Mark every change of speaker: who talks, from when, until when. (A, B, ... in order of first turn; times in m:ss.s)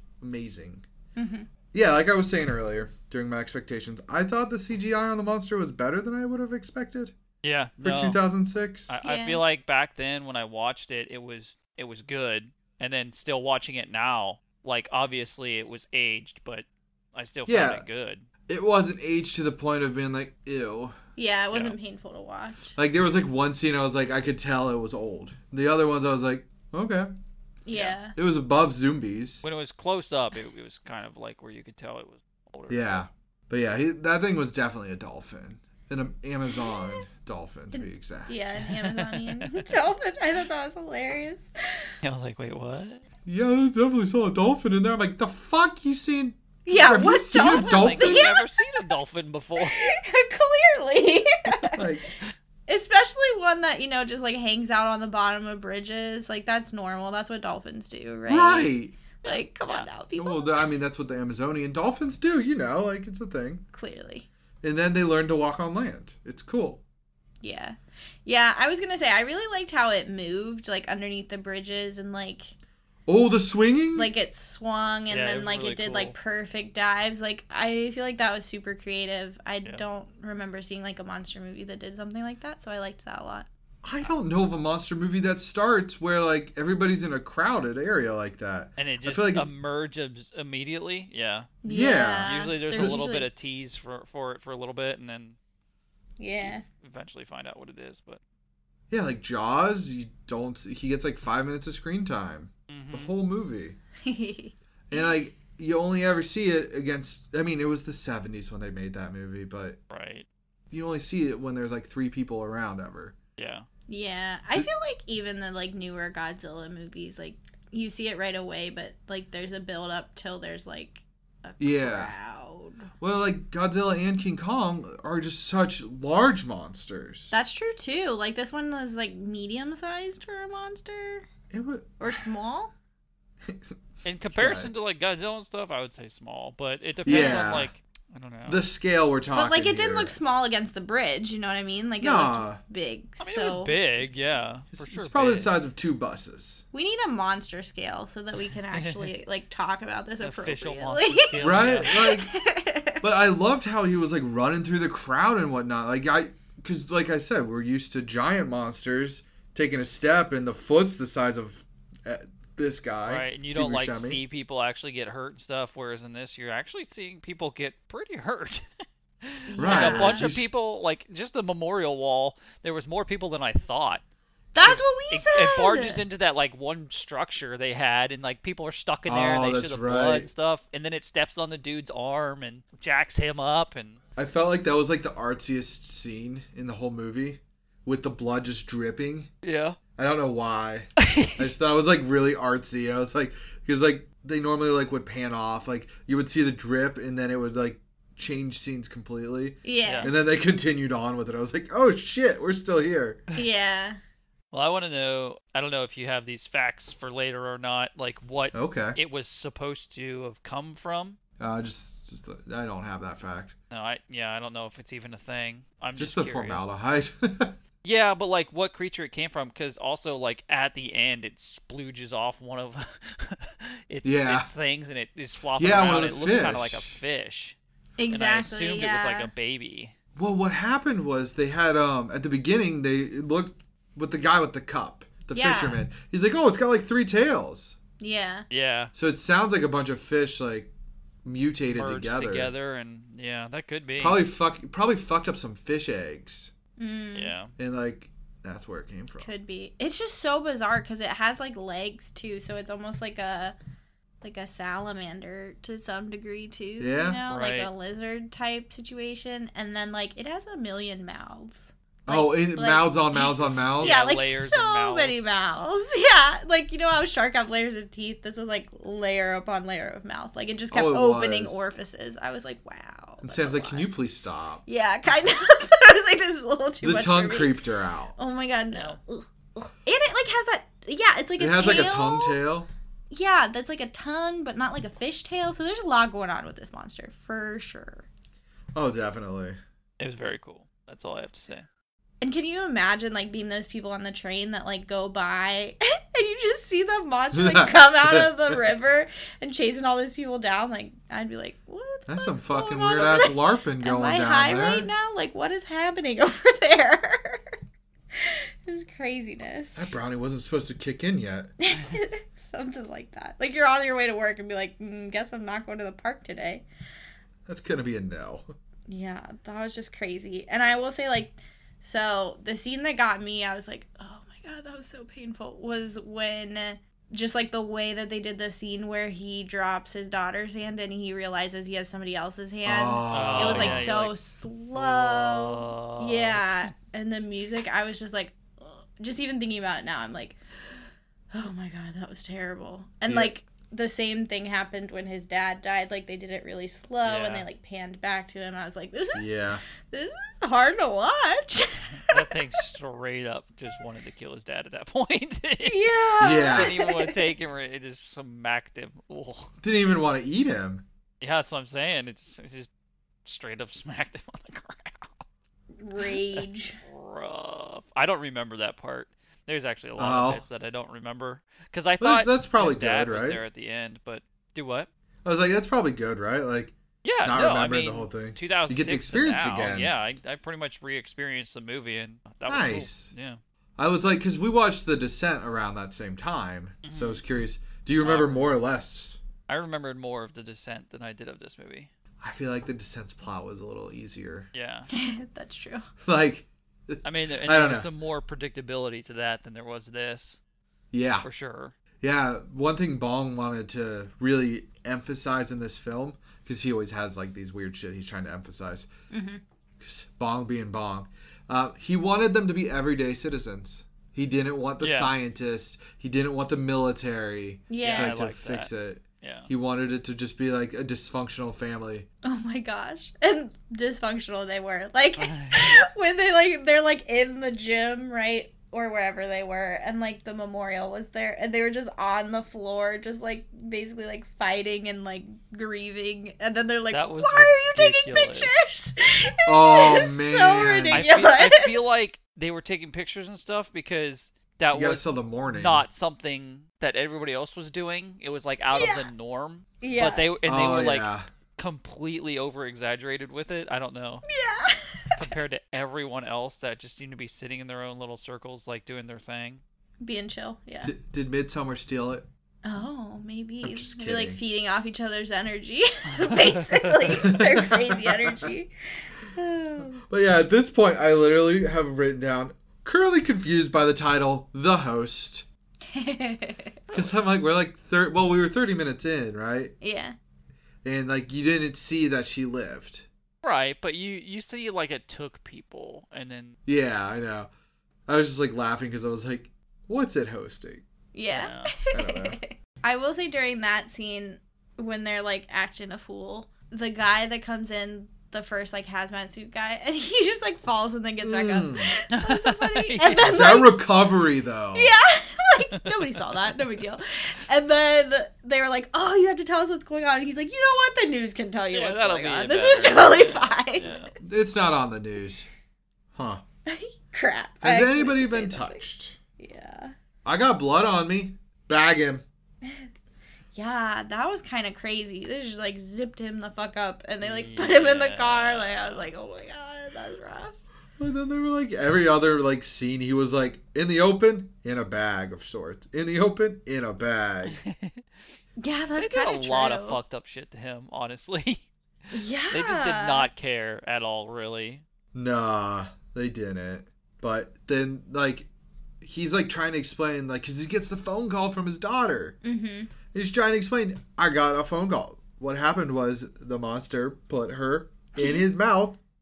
0:00.2-0:00.8 A
0:01.1-0:01.5 B
0:01.7-0:07.1 A
0:07.4-0:08.2 C
0:07.8-0:09.0 A
0:08.9-0:18.2 C
0:09.0-0:09.4 B
0:17.5-0:17.8 A
0:18.5-0:21.0 A
0:21.2-0:22.7 B
0:22.8-0:27.1 A
0:27.6-0:28.2 B
0:27.7-0:28.0 C
0:28.1-0:29.4 A
0:29.4-0:33.0 C
0:32.7-0:38.5 A
0:36.5-0:37.0 B
0:37.7-0:41.8 B
0:38.6-0:39.7 C
0:42.0-0:43.0 C
0:43.2-0:48.3 A
0:46.6-0:48.7 B
0:47.4-0:49.8 C
0:49.6-0:51.8 B
0:51.8-0:52.1 A
0:52.7-1:00.7 B
0:58.3-0:59.0 A
1:00.2-1:03.6 A
1:03.7-1:04.3 B
1:04.6-1:06.8 A
1:07.4-1:12.5 B
1:13.1-1:14.1 A
1:14.0-1:23.5 B
1:15.1-1:16.1 C
1:23.8-1:29.5 A
1:28.8-1:31.5 C
1:31.6-1:33.3 B
1:31.7-1:33.0 A
1:32.2-1:35.4 C
1:36.2-1:36.6 B
1:36.4-1:38.2 C
1:38.9-1:43.8 A
1:42.7-1:43.1 C
1:44.0-1:45.1 B
1:44.9-1:49.8 A
1:49.9-1:50.2 C
1:50.7-1:53.1 A
1:53.4-1:53.7 C
1:53.9-2:02.9 B
2:01.6-2:02.1 A
2:03.0-2:07.3 A
2:07.3-2:11.3 B
2:11.5-2:12.0 A
2:12.0-2:12.7 B
2:13.4-2:13.7 A
2:14.0-2:18.6 C
2:14.3-2:14.7 A
2:17.0-2:17.7 A
2:17.1-2:17.6 B
2:18.5-2:20.1 A
2:19.3-2:23.8 B
2:22.0-2:22.6 A
2:23.2-2:25.5 C
2:24.7-2:26.6 A
2:26.7-2:33.0 B
2:28.7-2:29.1 C
2:30.2-2:32.0 C
2:31.3-2:32.3 A
2:33.0-2:44.2 A
2:43.0-2:48.6 C
2:49.2-2:54.0 C
2:49.5-2:50.3 B
2:49.6-2:50.5 A
2:54.5-2:56.0 B
2:54.6-3:04.0 C
2:59.1-3:00.3 A
3:04.2-3:09.3 A
3:09.4-3:09.8 C
3:10.0-3:23.2 A
3:11.0-3:11.4 C
3:19.6-3:20.1 B
3:19.8-3:20.1 C
3:23.3-3:24.0 B
3:24.5-3:31.2 C
3:28.5-3:29.0 A
3:31.4-3:33.5 A
3:33.7-3:36.7 C
3:36.0-3:37.6 A
3:37.8-3:47.6 C
3:44.0-3:44.5 A
3:45.6-3:47.0 A
3:48.0-3:49.3 B
3:48.1-3:49.9 C
3:50.2-3:57.8 A
3:55.3-3:55.8 B
3:58.0-3:58.5 B
3:58.5-3:58.9 C
3:58.9-4:00.7 A
4:01.2-4:02.5 A
4:01.7-4:04.2 C
4:04.0-4:06.5 A
4:06.8-4:07.3 B
4:07.2-4:07.5 C
4:07.6-4:09.3 A
4:09.2-4:13.6 B
4:14.2-4:33.9 B
4:16.8-4:17.2 A
4:17.3-4:17.7 C
4:22.1-4:24.0 A
4:23.5-4:25.3 C
4:30.7-4:31.7 A
4:33.2-4:34.6 A
4:34.6-4:37.6 B
4:36.8-4:38.2 A
4:38.2-4:42.4 B
4:38.7-4:39.0 C
4:41.4-4:42.7 A
4:43.1-4:48.0 B
4:48.7-4:49.6 A
4:50.0-4:51.7 C
4:52.2-5:07.5 B
4:57.3-4:58.6 A
5:02.1-5:04.9 A
5:08.1-5:09.9 B
5:09.7-5:11.5 A
5:11.6-5:16.6 B
5:17.5-5:18.5 A
5:18.9-5:49.3 B
5:32.6-5:33.9 A
5:33.1-5:34.1 C
5:34.7-5:36.7 C
5:43.1-5:43.3 A
5:47.0-5:47.4 C
5:49.1-5:49.6 A
5:49.8-5:52.2 B
5:52.0-5:59.5 C
5:55.6-5:57.2 B
5:56.2-5:56.7 A
5:59.6-6:00.8 A
6:01.2-6:02.7 C
6:03.2-6:05.2 C
6:05.8-6:06.8 B
6:06.3-6:14.9 C
6:10.0-6:10.4 A
6:12.0-6:13.4 A
6:15.2-6:19.9 A
6:17.0-6:23.4 C
6:22.5-6:23.1 A
6:23.8-6:29.2 A
6:26.8-6:27.2 C
6:28.0-6:28.5 C
6:29.5-6:31.9 C
6:32.2-6:34.5 A
6:34.5-6:34.9 C
6:34.9-6:35.8 B
6:36.0-6:37.9 A
6:37.0-6:40.4 C
6:40.9-6:41.3 A
6:41.2-6:41.7 C
6:42.0-6:48.9 A
6:49.1-6:49.4 B
6:49.8-7:02.1 A
6:54.8-6:55.1 C
6:57.7-6:58.2 B
6:57.8-6:59.5 C
7:02.2-7:21.9 B
7:05.2-7:05.8 C
7:16.9-7:18.5 C
7:19.4-7:21.1 A
7:20.9-7:34.2 C
7:24.7-7:25.8 A
7:28.7-7:29.1 B
7:29.8-7:30.3 B
7:30.4-7:31.3 A
7:34.3-7:35.2 B
7:35.2-7:39.6 C
7:40.0-7:40.9 B
7:40.8-7:42.2 A
7:42.6-7:50.0 B
7:43.6-7:44.4 A
7:46.1-7:47.2 C
7:47.2-7:48.4 A
7:50.1-7:55.4 A
7:55.8-7:56.9 B
7:56.9-7:59.7 A
7:59.8-8:00.1 B
8:00.8-8:03.0 A
8:03.4-8:06.6 C
8:06.6-8:07.5 A
8:08.1-8:10.8 A
8:11.1-8:23.8 B
8:11.3-8:11.7 C
8:11.9-8:12.4 A
8:21.2-8:21.9 A
8:22.1-8:23.6 C
8:23.2-8:24.9 A
8:24.7-8:34.0 B
8:25.8-8:26.2 C
8:31.7-8:34.1 C
8:34.2-8:35.4 A
8:36.1-8:36.4 A
8:36.6-8:38.8 B
8:37.6-8:39.2 A
8:39.4-8:39.9 B
8:40.2-8:42.2 A
8:43.5-8:50.6 B
8:47.2-8:49.1 C
8:51.0-8:57.6 A
8:57.5-8:58.0 C
8:58.6-9:00.0 B
8:59.0-9:01.7 C
9:02.1-9:03.3 B
9:02.5-9:04.8 C
9:05.1-9:08.5 A
9:09.0-9:12.4 A
9:12.4-9:12.9 B
9:13.1-9:19.0 A
9:18.2-9:18.4 B